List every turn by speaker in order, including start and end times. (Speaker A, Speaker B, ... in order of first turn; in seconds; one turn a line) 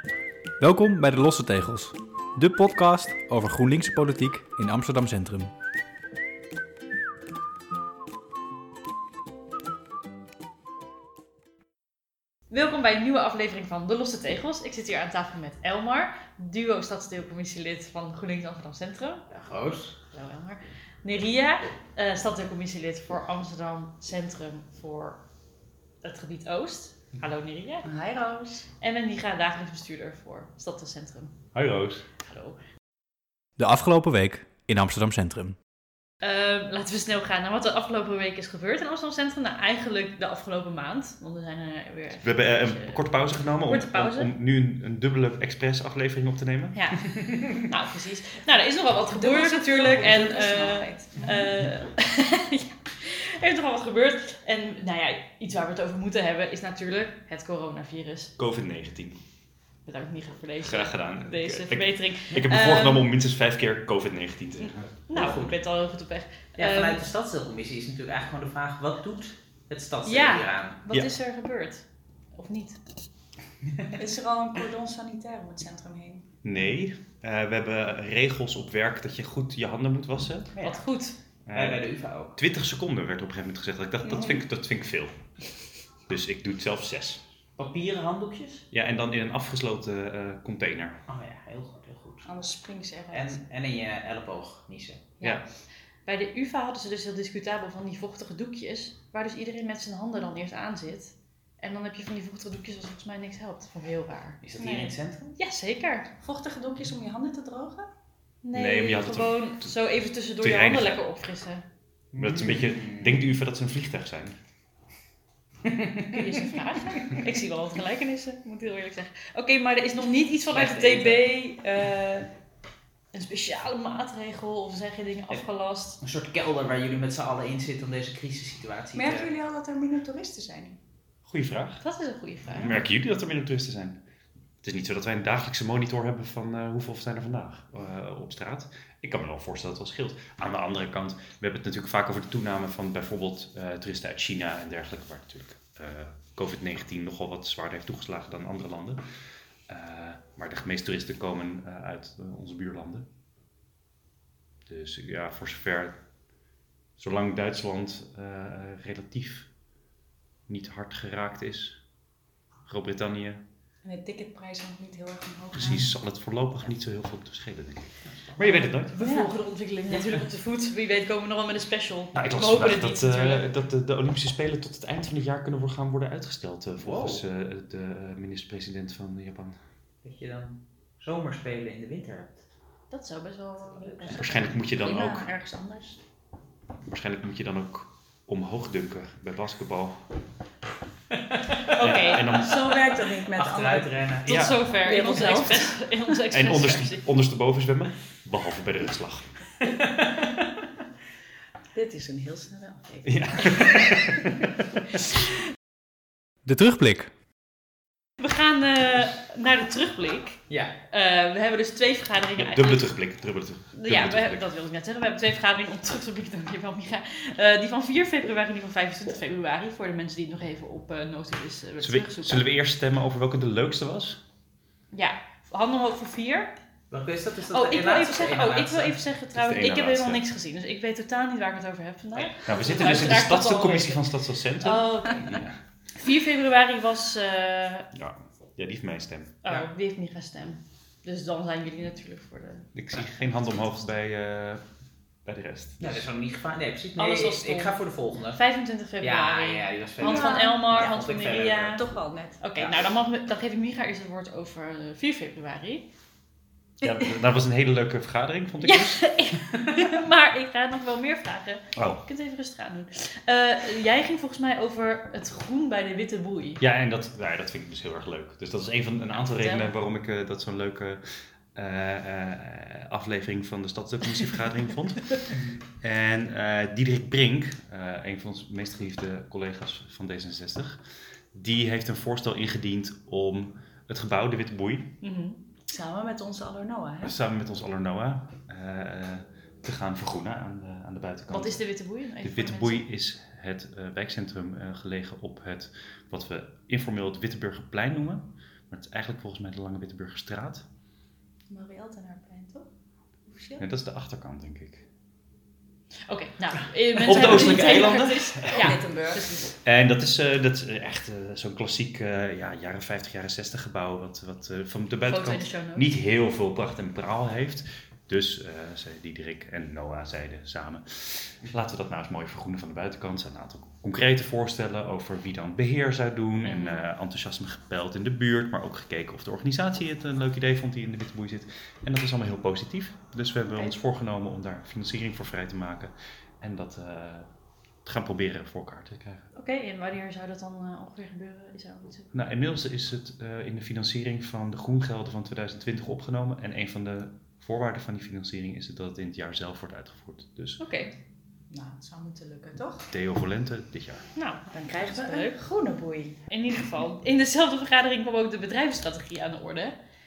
Speaker A: 0.6-5.5
Speaker B: 12.5-19.2
Speaker C: 19.3-20.0
Speaker B: 20.1-25.2
Speaker B: 26.0-27.9
Speaker D: 27.8-28.6
Speaker B: 28.8-31.4
Speaker E: 31.5-32.0
Speaker B: 32.2-32.5
Speaker A: 33.6-35.5
Speaker B: 36.2-44.3
Speaker E: 42.2-46.8
Speaker B: 46.7-58.4
Speaker D: 49.1-51.4
Speaker E: 58.4-59.2
Speaker B: 59.8-63.1
Speaker E: 60.6-65.0
Speaker B: 64.6-67.0
Speaker C: 65.1-65.5
Speaker C: 66.6-70.8
Speaker B: 70.0-72.8
Speaker D: 74.0-76.3
Speaker E: 76.4-80.6
Speaker C: 80.5-80.8
Speaker B: 80.6-81.2
Speaker E: 81.5-87.2
Speaker C: 81.5-82.3
Speaker D: 84.0-84.4
Speaker C: 87.6-88.7
Speaker E: 88.7-91.0
Speaker C: 91.1-92.3
Speaker D: 92.2-93.4
Speaker C: 93.1-95.1
Speaker B: 96.0-106.1
Speaker C: 104.4-105.3
Speaker D: 106.2-107.9
Speaker B: 108.4-111.6
Speaker E: 108.5-109.7
Speaker E: 110.4-111.0
Speaker C: 112.1-113.2
Speaker E: 112.1-114.4
Speaker C: 115.6-116.2
Speaker B: 116.1-122.3
Speaker C: 120.5-121.2
Speaker B: 123.1-126.0
Speaker C: 126.0-129.3
Speaker D: 128.9-130.8
Speaker E: 131.2-131.8
Speaker B: 131.8-132.8
Speaker E: 132.5-134.0
Speaker E: 134.6-149.0
Speaker E: 149.7-153.1
Speaker E: 154.7-156.0
Speaker E: 157.0-159.5
Speaker E: 160.5-161.9
Speaker E: 162.6-163.4
Speaker D: 163.8-165.9
Speaker E: 165.5-169.0
Speaker B: 168.4-173.5
Speaker D: 169.0-169.3
Speaker E: 172.1-179.6
Speaker C: 176.8-177.2
Speaker C: 180.0-182.4
Speaker B: 182.9-184.6
Speaker C: 183.8-184.2
Speaker E: 184.1-185.3
Speaker D: 184.3-186.0
Speaker E: 186.8-190.0
Speaker C: 191.3-191.8
Speaker B: 191.7-192.2
Speaker E: 191.8-192.6
Speaker D: 192.3-194.0
Speaker C: 192.4-194.6
Speaker B: 194.2-197.0
Speaker E: 194.3-194.7
Speaker D: 194.7-195.8
Speaker E: 196.3-199.4
Speaker C: 199.6-200.3
Speaker D: 201.7-204.2
Speaker E: 203.1-204.5
Speaker A: 206.4-207.1
Speaker B: 208.2-213.1
Speaker E: 212.4-214.4
Speaker B: 213.7-222.4
Speaker E: 221.8-224.2
Speaker B: 224.9-226.5
Speaker C: 226.9-229.0
Speaker B: 227.5-235.4
Speaker E: 229.3-230.2
Speaker E: 232.4-235.6
Speaker B: 235.9-237.9
Speaker E: 237.9-239.4
Speaker B: 239.4-242.7
Speaker E: 242.7-244.6
Speaker E: 245.2-246.1
Speaker C: 245.8-248.4
Speaker B: 247.0-251.8
Speaker C: 249.0-251.8
Speaker D: 250.0-250.9
Speaker D: 251.7-252.4
Speaker B: 252.4-255.8
Speaker C: 252.6-252.8
Speaker E: 256.8-259.1
Speaker B: 258.6-266.6
Speaker E: 261.7-262.0
Speaker E: 266.6-284.9
Speaker B: 269.3-269.7
Speaker B: 285.0-285.4
Speaker D: 285.7-287.1
Speaker E: 287.0-300.7
Speaker B: 291.3-292.8
Speaker D: 301.5-302.7
Speaker D: 303.2-303.6
Speaker E: 303.6-304.9
Speaker B: 306.1-309.5
Speaker E: 306.9-308.9
Speaker D: 307.4-307.8
Speaker D: 308.4-309.5
Speaker E: 309.5-337.3
Speaker B: 315.1-315.9
Speaker B: 326.4-326.8
Speaker E: 337.8-339.3
Speaker B: 339.3-342.1
Speaker E: 342.1-350.6
Speaker B: 350.6-350.9
Speaker D: 351.5-352.9
Speaker E: 352.9-354.1
Speaker B: 354.1-355.4
Speaker D: 354.5-356.2
Speaker B: 356.3-359.7